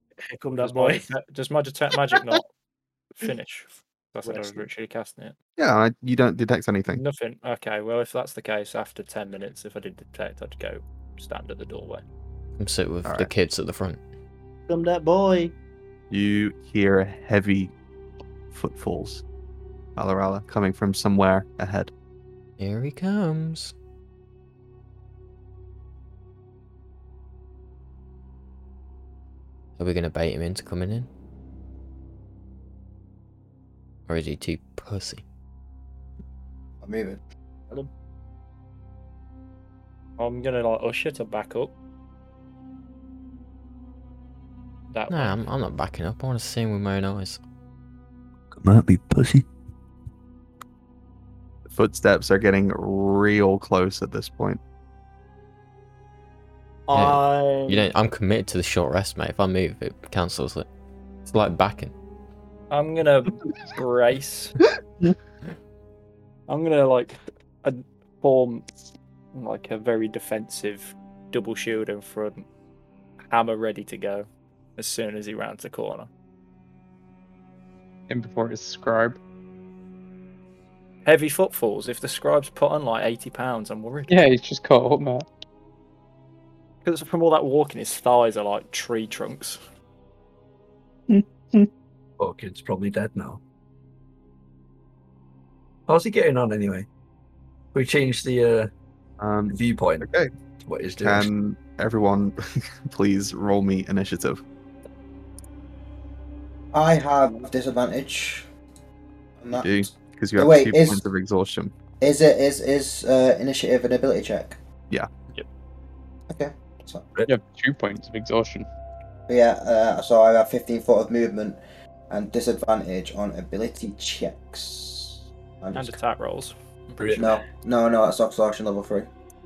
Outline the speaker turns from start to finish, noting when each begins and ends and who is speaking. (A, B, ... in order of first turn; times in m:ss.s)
0:00.3-0:01.1 A
0:00.6-0:02.5 B
0:03.2-0:05.4 B
0:04.3-0:04.7 A
0:05.6-0:07.0 C
0:07.0-0:12.0 B
0:12.6-0:14.0 D
0:13.0-0:13.3 C
0:14.7-0:15.6 A
0:16.1-0:17.7 C
0:18.5-0:19.2 C
0:20.0-0:21.9 C
0:22.6-0:23.7 D
0:29.8-0:31.1 D
0:34.1-0:35.2 D
0:36.8-0:37.2 E
0:40.2-0:41.7 B
0:44.9-0:45.4 B
0:45.1-0:47.4 D
0:48.6-0:49.4 F
0:51.7-0:54.6 C
0:56.9-0:57.9 A
0:56.9-1:00.7 D
1:01.3-1:01.9 D
1:02.7-1:04.6 B
1:06.5-1:08.7 B
1:09.3-1:12.4 B
1:13.3-1:16.1 B
1:18.1-1:19.2 G
1:21.0-1:24.3 B
1:24.1-1:25.2 G
1:26.8-1:29.6 B
1:31.1-1:31.7 G
1:32.2-1:33.4 F
1:35.9-1:36.9 F
1:37.7-1:38.7 F
1:39.2-1:40.3 C
1:39.5-1:40.1 F
1:40.6-1:41.3 F
1:41.0-1:44.4 C
1:46.7-1:48.5 E
1:49.4-1:51.0 E
1:49.5-1:51.7 C
1:52.0-1:54.6 E
1:56.3-1:57.1 E
1:57.3-1:58.7 G
1:59.3-2:06.0 E
2:05.7-2:07.2 B
2:07.0-2:07.4 F
2:07.2-2:09.1 E